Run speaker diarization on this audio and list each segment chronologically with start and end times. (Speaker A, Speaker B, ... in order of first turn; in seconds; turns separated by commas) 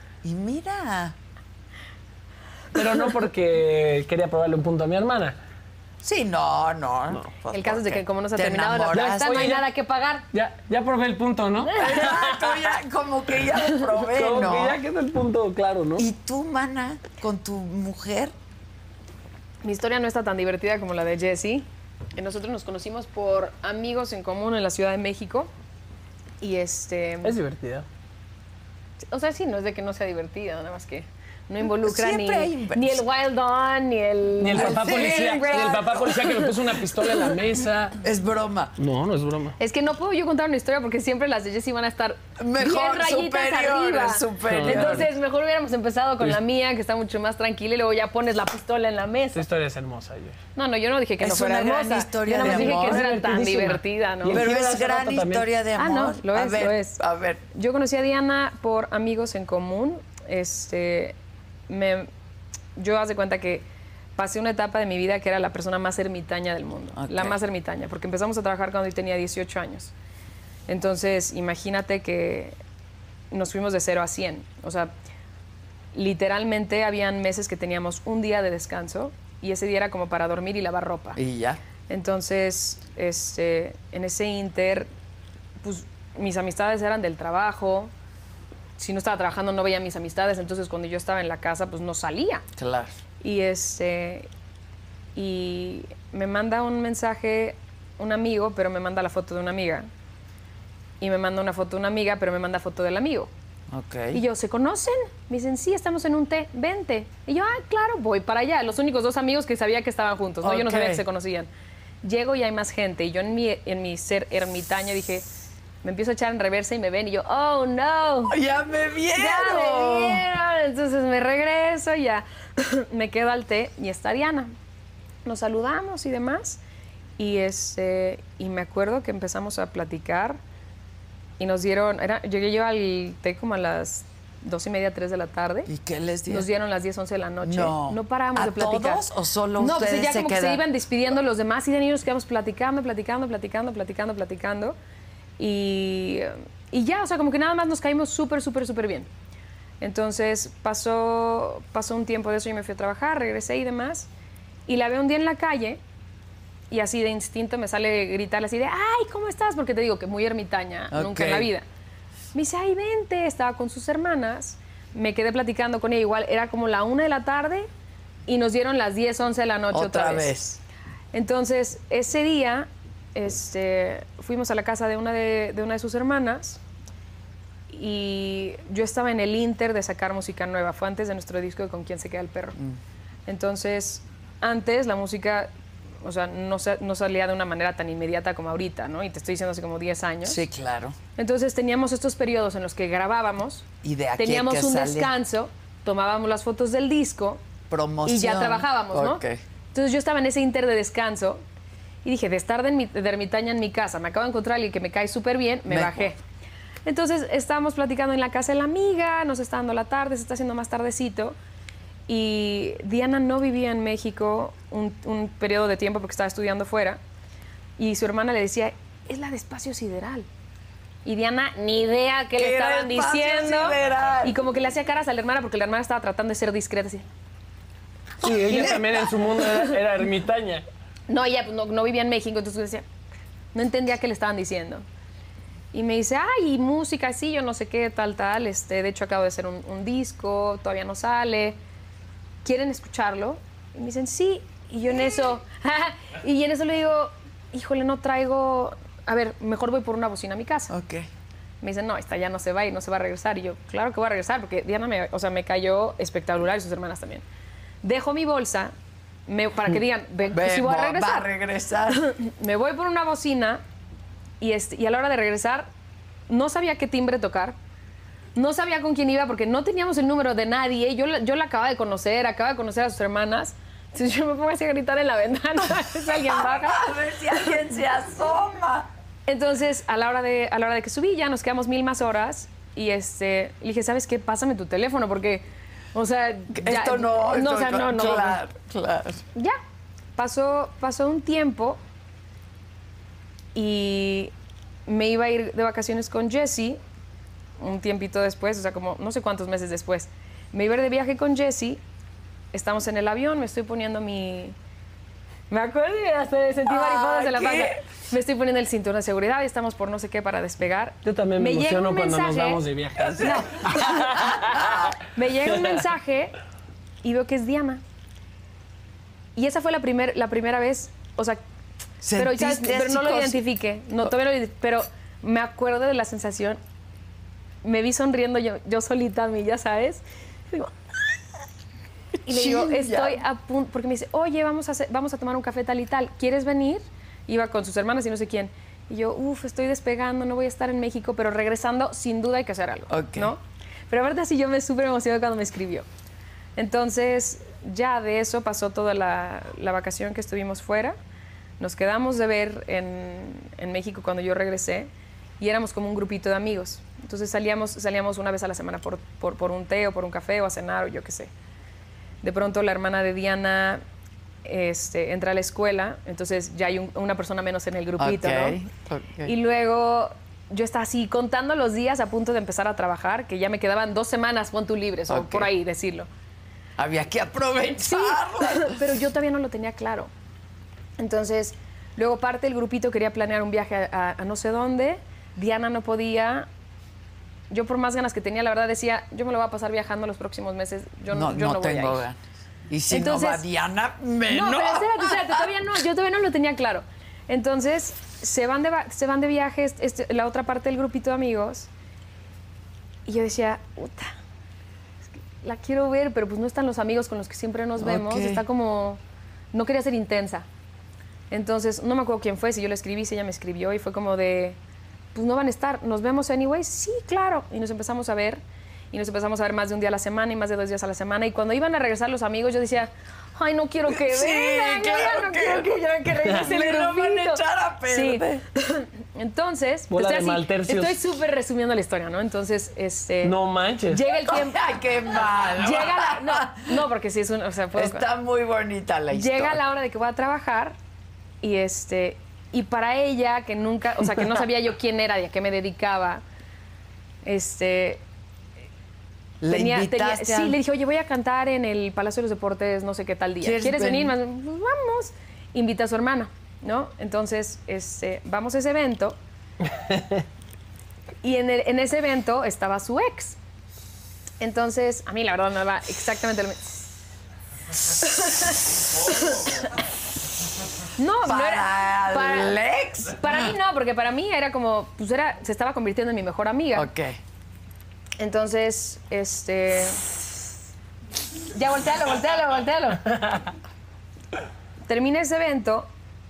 Speaker A: 0.2-1.2, Speaker B: 2.7-5.4, Speaker A: 6.0-9.6, Speaker C: 7.5-10.2, Speaker B: 8.9-9.7, Speaker B: 10.3-12.8, Speaker C: 11.7-12.1, Speaker A: 11.8-14.8, Speaker B: 14.0-16.1, Speaker A: 16.0-18.3, Speaker C: 19.6-25.5, Speaker C: 26.4-27.4, Speaker B: 27.2-27.9, Speaker C: 29.1-36.5, Speaker A: 31.8-33.0, Speaker B: 34.4-38.0, Speaker A: 34.5-36.4, Speaker A: 38.0-38.8, Speaker B: 38.8-39.6, Speaker C: 39.6-49.4, Speaker A: 42.4-45.1, Speaker B: 44.5-45.1, Speaker B: 49.3-50.4, Speaker C: 50.6-54.4, Speaker A: 51.2-53.0, Speaker B: 52.4-55.5, Speaker A: 54.3-57.4, Speaker C: 55.8-57.0, Speaker C: 57.5-61.1, Speaker C: 61.7-62.1, Speaker C: 62.8-63.6, Speaker C: 64.2-69.9, Speaker A: 67.0-67.4, Speaker C: 70.7-72.6, Speaker C: 73.3-74.9, Speaker C: 75.9-81.2, Speaker A: 81.2-81.6, Speaker C: 81.9-84.9, Speaker C: 85.6-87.9, Speaker C: 88.8-92.4, Speaker A: 92.6-93.0, Speaker C: 93.2-94.3, Speaker C: 95.2-99.9, Speaker C: 101.0-103.3, Speaker A: 103.7-104.2, Speaker C: 104.1-111.5, Speaker A: 110.4-111.0, Speaker C: 112.0-115.3, Speaker C: 115.8-118.3, Speaker A: 118.3-120.3, Speaker C: 119.1-124.5, Speaker C: 125.2-126.6, Speaker C: 127.2-130.4, Speaker C: 131.4-135.7, Speaker A: 135.7-136.5, Speaker C: 136.3-139.0, Speaker A: 137.4-140.7, Speaker C: 139.6-144.8, Speaker C: 145.4-149.1, Speaker C: 149.8-154.1, Speaker C: 154.7-155.8, Speaker C: 156.7-161.7, Speaker A: 160.9-161.5, Speaker C: 162.3-167.7, Speaker C: 168.3-170.3, Speaker A: 169.7-170.6, Speaker C: 171.1-176.6, Speaker C: 177.7-182.6, Speaker C: 183.3-185.5, Speaker C: 186.0-190.4, Speaker A: 190.2-191.0, Speaker C: 191.2-197.4, Speaker A: 193.8-195.1, Speaker A: 197.7-199.4, Speaker C: 198.1-199.2, Speaker C: 199.7-201.4, Speaker C: 202.0-206.2, Speaker A: 205.7-206.1, Speaker C: 206.9-211.4, Speaker C: 212.1-217.0, Speaker C: 217.8-220.3, Speaker C: 221.1-227.1, Speaker A: 222.3-224.4, Speaker B: 228.2-230.7, Speaker A: 228.5-228.8, Speaker C: 228.5-228.8, Speaker C: 229.4-229.7, Speaker C: 231.1-232.8, Speaker C: 233.5-234.8, Speaker C: 235.7-241.6, Speaker C: 242.4-250.7, Speaker A: 250.7-251.1, Speaker C: 251.6-257.2, Speaker C: 257.8-258.7, Speaker C: 259.3-261.3, Speaker A: 260.3-262.1, Speaker C: 261.9-263.6, Speaker C: 264.4-265.7, Speaker C: 266.3-267.6, Speaker C: 268.4-277.5, Speaker A: 276.1-278.9, Speaker C: 279.3-288.4, Speaker A: 286.5-289.2, Speaker C: 290.2-291.8, Speaker C: 293.6-294.3, Speaker C: 294.9-296.8, Speaker C: 297.6-301.8, Speaker C: 302.5-304.6, Speaker C: 305.5-312.6, Speaker A: 306.7-307.8, Speaker B: 311.0-314.9, Speaker A: 313.0-315.0, Speaker C: 313.2-314.3, Speaker C: 315.1-316.4, Speaker B: 315.5-315.8, Speaker C: 317.0-317.8, Speaker C: 319.4-321.4, Speaker A: 322.0-323.4, Speaker C: 322.1-326.6, Speaker C: 327.6-331.1, Speaker C: 332.3-345.9, Speaker A: 332.3-333.2, Speaker A: 342.9-343.3, Speaker C: 346.6-351.0, Speaker C: 351.6-361.3, Speaker C: 362.2-363.8, Speaker C: 364.4-368.6, Speaker A: 368.0-369.3, Speaker C: 369.2-376.1, Speaker A: 375.1-375.5, Speaker A: 376.8-378.9, Speaker C: 377.8-380.1, Speaker C: 381.0-386.5, Speaker C: 387.5-392.1, Speaker A: 391.1-392.2, Speaker A: 392.7-395.5, Speaker C: 392.9-393.4, Speaker C: 394.3-401.7, Speaker C: 403.1-404.2, Speaker C: 405.4-409.0, Speaker A: 407.8-408.4, Speaker C: 409.5-410.5, Speaker C: 411.3-414.6, Speaker C: 415.1-418.4, Speaker C: 418.9-433.4, Speaker A: 423.9-428.4, Speaker B: 429.9-431.0, Speaker B: 433.2-434.0, Speaker C: 433.9-434.6, Speaker A: 434.1-436.9, Speaker C: 435.4-438.1, Speaker A: 437.7-439.6, Speaker C: 439.1-440.8, Speaker C: 441.4-446.2, Speaker C: 447.2-448.0, Speaker A: 449.4-450.6, Speaker C: 449.5-459.2, Speaker A: 453.4-454.2, Speaker C: 461.2-463.4, Speaker C: 464.4-466.7, Speaker C: 467.8-469.6, Speaker C: 471.0-472.6, Speaker A: 471.2-473.4, Speaker C: 473.1-476.9, Speaker A: 476.7-477.2, Speaker C: 478.2-480.0, Speaker C: 481.5-483.2, Speaker C: 484.9-485.9